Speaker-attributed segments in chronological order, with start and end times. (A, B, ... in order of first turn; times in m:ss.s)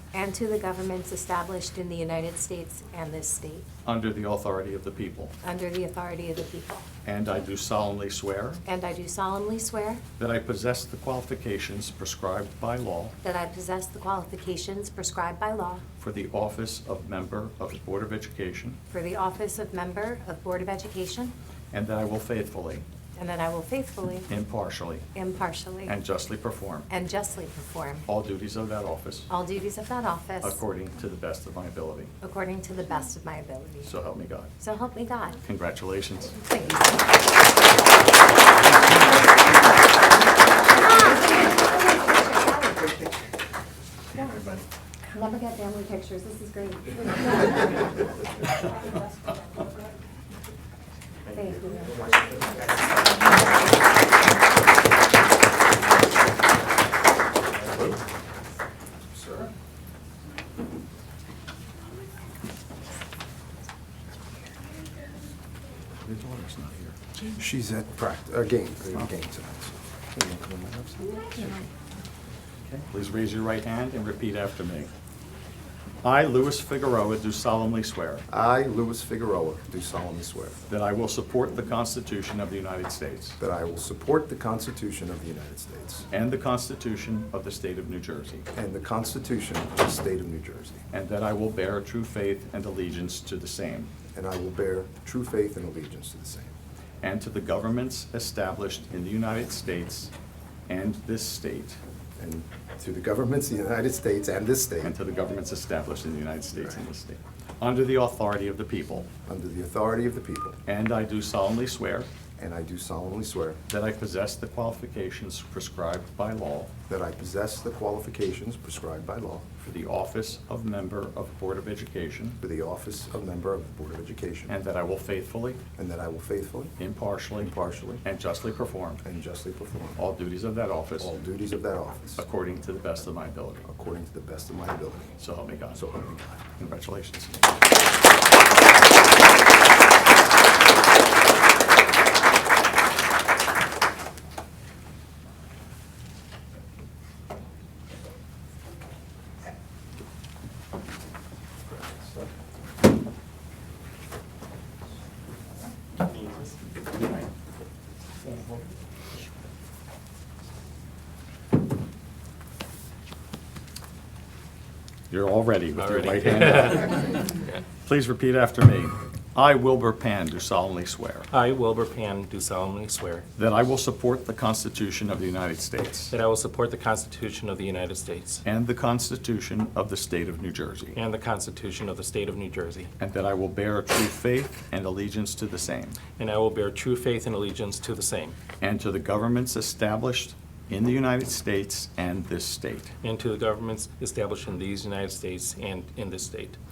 0:00.1-0:03.7 A
0:03.8-0:05.3 B
0:05.4-0:06.9 A
0:07.0-0:08.6 B
0:08.6-0:10.0 A
0:10.2-0:13.2 B
0:13.2-0:15.8 A
0:16.0-0:18.8 B
0:18.9-0:21.3 A
0:21.7-0:22.9 B
0:23.2-0:24.3 A
0:24.3-0:25.1 B
0:25.1-0:26.0 A
0:25.9-0:26.9 B
0:26.9-0:28.1 A
0:28.1-0:29.3 B
0:29.3-0:30.6 A
0:30.4-0:32.1 B
0:32.2-0:33.9 A
0:33.8-0:34.5 B
0:34.6-0:35.4 A
0:35.4-0:36.4 B
0:36.4-0:37.2 A
0:40.7-0:43.1 A
0:45.1-0:47.7 A
0:51.3-0:52.3 A
0:59.1-0:59.5 C
1:06.0-1:11.5 C
1:11.4-1:11.7 B
1:12.7-1:14.9 B
1:16.0-1:18.2 B
1:18.3-1:20.7 C
1:20.7-1:23.4 B
1:23.4-1:26.1 C
1:26.1-1:28.5 B
1:28.6-1:30.8 C
1:30.9-1:33.9 B
1:34.1-1:36.6 C
1:37.0-1:40.1 B
1:40.7-1:41.8 B
1:42.2-1:45.0 C
1:44.8-1:49.1 B
1:49.3-1:50.6 C
1:50.7-1:52.1 B
1:52.4-1:53.6 C
1:53.7-1:56.7 B
1:56.9-1:59.6 C
1:59.6-2:02.4 B
2:02.4-2:04.6 C
2:04.5-2:05.6 B
2:05.8-2:06.8 C
2:06.8-2:09.0 B
2:07.4-2:08.0 C
2:09.0-2:10.0 C
2:10.0-2:11.1 B
2:11.0-2:12.3 C
2:12.2-2:13.6 B
2:13.6-2:15.2 C
2:15.2-2:15.8 B
2:15.7-2:16.4 C
2:16.6-2:17.4 B
2:45.1-2:47.2 B
2:45.8-2:47.6 D
2:47.8-2:51.3 B
2:51.3-2:53.3 D
2:53.4-2:56.1 B
2:56.1-2:58.4 D
2:58.4-3:01.0 B
3:01.0-3:02.9 D
3:03.0-3:06.0 B
3:06.1-3:08.4 D
3:08.6-3:12.9 B
3:13.0-3:16.6 D